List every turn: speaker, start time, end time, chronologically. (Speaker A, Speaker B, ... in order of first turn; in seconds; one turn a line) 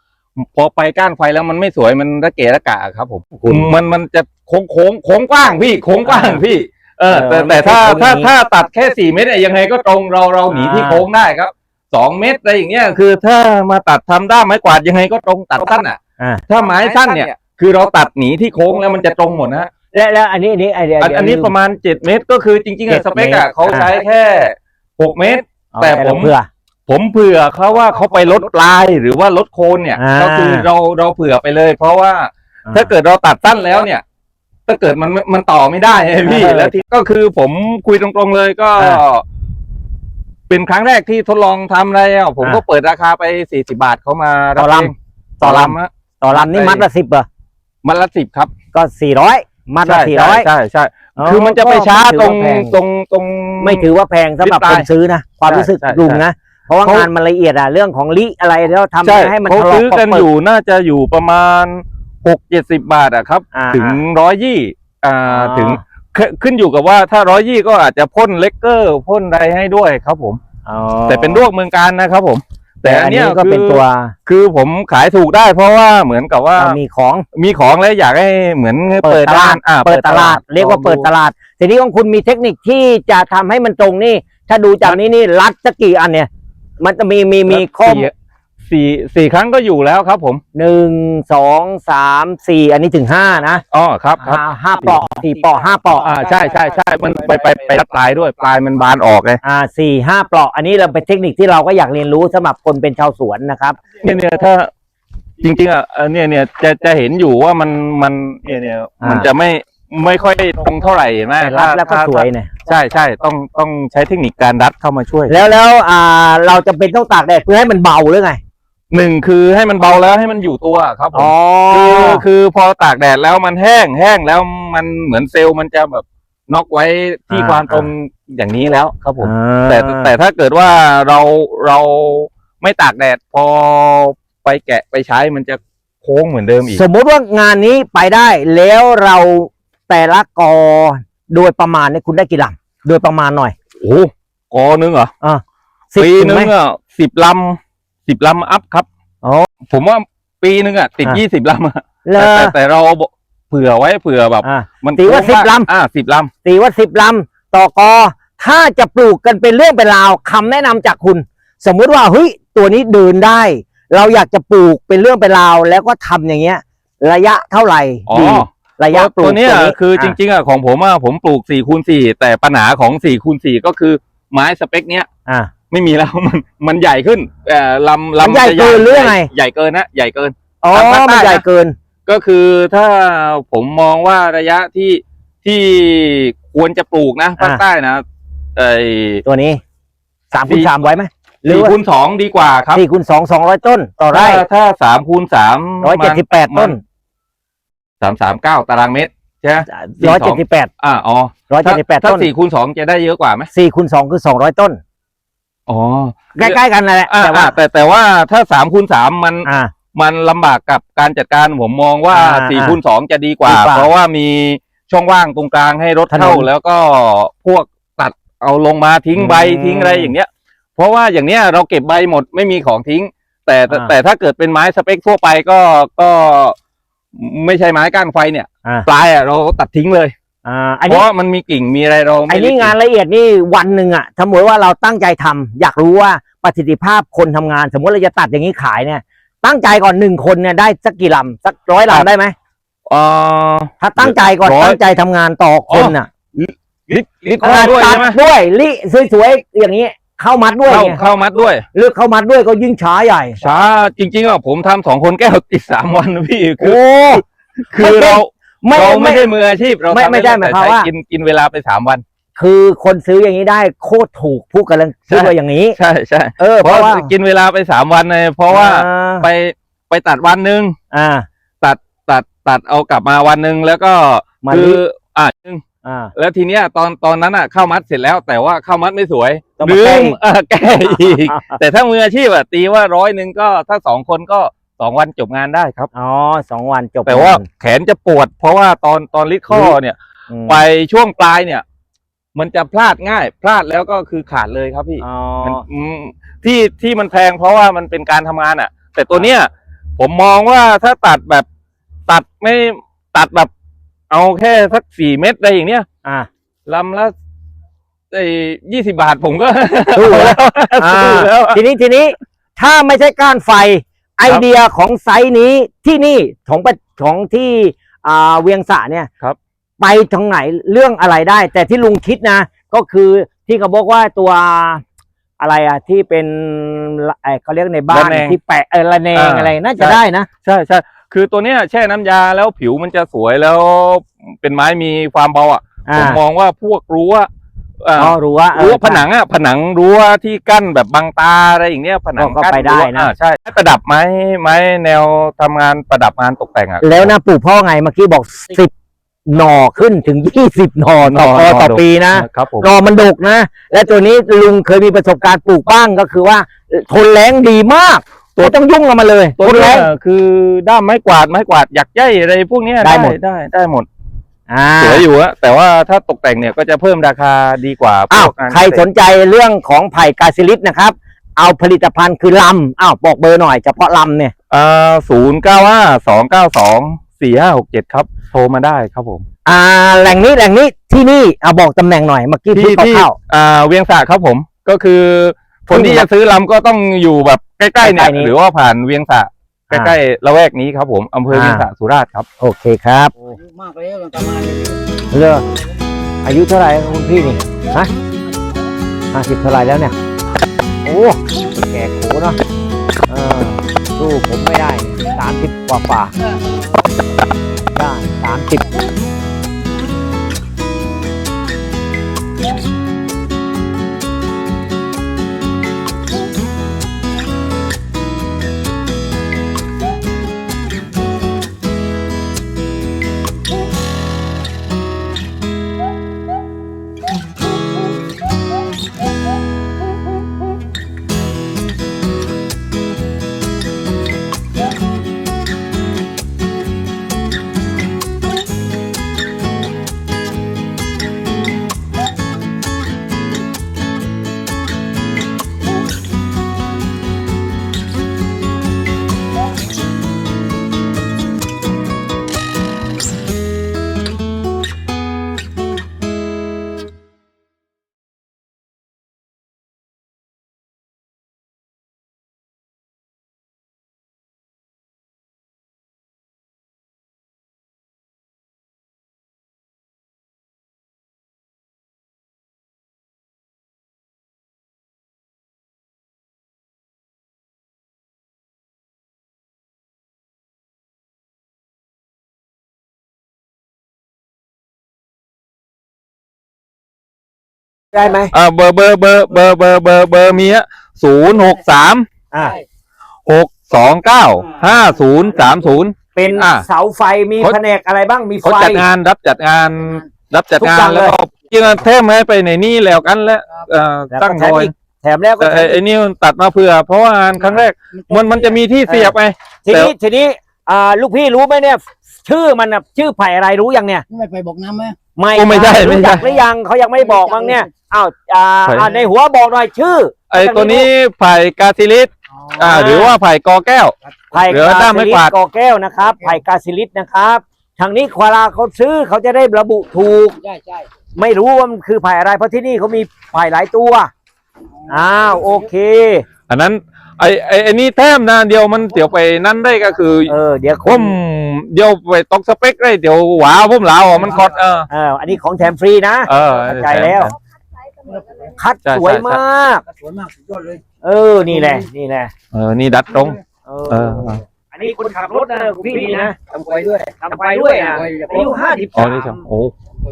Speaker A: 0.4-19.7
Speaker B: 3.3-3.7
Speaker B: 6.0-6.4
Speaker B: 7.1-8.3
Speaker B: 10.5-11.1
Speaker B: 16.2-17.3
Speaker B: 19.9-21.5
Speaker A: 21.0-26.3
Speaker B: 22.9-23.9
Speaker B: 25.7-26.5
Speaker A: 26.9-34.0
Speaker B: 30.0-30.7
Speaker A: 34.7-39.2
Speaker B: 36.2-36.7
Speaker A: 40.5-46.8
Speaker B: 44.6-47.3
Speaker A: 47.8-48.5
Speaker B: 48.7-50.5
Speaker A: 49.8-53.9
Speaker B: 51.2-52.8
Speaker B: 53.6-60.3
Speaker A: 54.4-54.9
Speaker A: 55.5-56.2
Speaker A: 59.0-70.4
Speaker B: 63.5-64.0
Speaker B: 65.3-65.8
Speaker B: 70.7-71.5
Speaker A: 71.1-76.8
Speaker B: 72.8-74.1
Speaker B: 76.5-77.2
Speaker A: 77.3-81.1
Speaker B: 79.0-86.3
Speaker B: 86.8-88.1
Speaker A: 87.5-88.1
Speaker A: 88.7-90.4
Speaker B: 90.5-93.6
Speaker A: 93.7-95.0
Speaker B: 94.2-96.2
Speaker A: 96.0-99.4
Speaker B: 99.4-103.8
Speaker A: 104.0-104.7
Speaker A: 105.4-115.4
Speaker B: 109.0-109.3
Speaker B: 111.4-112.5
Speaker B: 115.3-118.4
Speaker A: 118.9-136.8
Speaker B: 121.1-122.2
Speaker B: 127.3-127.9
Speaker B: 129.2-130.1
Speaker B: 136.7-143.5
Speaker A: 143.8-145.1
Speaker B: 145.2-146.5
Speaker A: 146.0-148.8
Speaker B: 149.2-149.5
Speaker A: 149.7-156.3
Speaker B: 152.0-152.5
Speaker B: 154.4-155.7
Speaker B: 156.4-170.2
Speaker A: 168.1-175.1
Speaker B: 175.3-175.5
Speaker A: 175.7-181.4
Speaker B: 178.2-179.3
Speaker B: 180.6-181.7
Speaker A: 182.1-188.0
Speaker A: 188.6-189.2
Speaker B: 189.2-189.6
Speaker B: 190.3-191.7
Speaker A: 190.4-190.7
Speaker A: 191.5-192.8
Speaker B: 192.7-194.4
Speaker A: 194.1-196.8
Speaker B: 195.8-196.8
Speaker A: 198.0-203.5
Speaker B: 199.7-200.7
Speaker B: 201.5-202.3
Speaker B: 203.5-204.8
Speaker A: 205.7-226.6
Speaker B: 206.3-207.6
Speaker B: 209.4-209.7
Speaker B: 212.1-212.8
Speaker B: 213.4-213.9
Speaker B: 216.1-216.5
Speaker B: 219.2-220.1
Speaker A: 227.1-230.1
Speaker B: 230.4-231.1
Speaker A: 230.9-232.7
Speaker B: 232.3-242.3
Speaker A: 242.9-244.8
Speaker B: 243.8-246.1
Speaker A: 245.7-248.2
Speaker B: 247.4-251.0
Speaker A: 250.7-251.6
Speaker B: 251.7-253.4
Speaker A: 253.4-262.0
Speaker B: 256.6-257.2
Speaker B: 257.8-259.3
Speaker B: 259.9-260.9
Speaker B: 262.4-265.8
Speaker A: 265.1-270.7
Speaker B: 266.4-267.1
Speaker B: 268.5-269.3
Speaker B: 270.9-271.2
Speaker A: 271.6-275.6
Speaker B: 274.4-274.8
Speaker B: 275.8-276.1
Speaker A: 276.1-285.9
Speaker B: 279.6-280.2
Speaker B: 280.8-281.6
Speaker B: 285.9-287.4
Speaker A: 287.1-291.6
Speaker B: 289.5-289.8
Speaker B: 290.3-290.6
Speaker A: 292.3-301.4
Speaker B: 295.0-295.6
Speaker A: 302.1-303.5
Speaker A: 304.1-305.9
Speaker A: 306.7-307.1
Speaker A: 308.1-311.6
Speaker B: 309.9-319.1
Speaker B: 319.8-324.8
Speaker B: 325.4-330.3
Speaker A: 327.9-328.4
Speaker A: 329.1-337.3
Speaker B: 335.9-336.2
Speaker A: 337.8-347.1
Speaker B: 338.0-339.1
Speaker B: 342.2-343.1
Speaker B: 346.8-348.7
Speaker B: 349.3-359.9
Speaker A: 351.0-352.7
Speaker A: 359.4-363.9
Speaker B: 362.8-363.2
Speaker B: 364.5-365.1
Speaker A: 364.8-368.8
Speaker B: 368.1-374.3
Speaker A: 374.5-379.2
Speaker B: 379.4-383.1
Speaker A: 382.5-392.2
Speaker B: 385.7-386.1
Speaker B: 387.8-388.3
Speaker B: 391.3-391.6
Speaker B: 392.4-393.4
Speaker C: 393.7-394.7
Speaker B: 395.1-395.4
Speaker B: 396.2-397.9
Speaker B: 399.1-399.9
Speaker B: 400.8-402.4
Speaker B: 403.1-406.1
Speaker B: 407.7-408.6
Speaker B: 487.9-488.3
Speaker A: 488.3-492.1
Speaker B: 492.3-492.6
Speaker A: 493.2-496.6
Speaker B: 496.1-498.9
Speaker A: 498.4-504.7
Speaker B: 500.6-501.2
Speaker B: 504.1-505.8
Speaker A: 505.4-509.9
Speaker B: 508.9-509.1
Speaker B: 509.7-514.0
Speaker C: 514.2-515.0
Speaker B: 515.1-520.9
Speaker A: 515.3-516.3
Speaker A: 518.6-518.9
Speaker A: 520.3-523.9
Speaker B: 522.5-523.2
Speaker B: 524.3-530.4
Speaker A: 524.5-525.3
Speaker B: 531.1-534.1
Speaker B: 534.9-536.2
Speaker A: 536.5-540.3
Speaker B: 540.3-541.1
Speaker A: 540.8-544.9
Speaker B: 544.9-547.3
Speaker A: 546.3-547.3
Speaker B: 548.4-549.8
Speaker A: 548.8-549.4
Speaker C: 550.2-550.8
Speaker B: 551.0-552.3
Speaker A: 552.5-554.4
Speaker B: 553.6-556.4
Speaker C: 556.5-557.2
Speaker B: 557.0-559.4
Speaker A: 558.9-559.7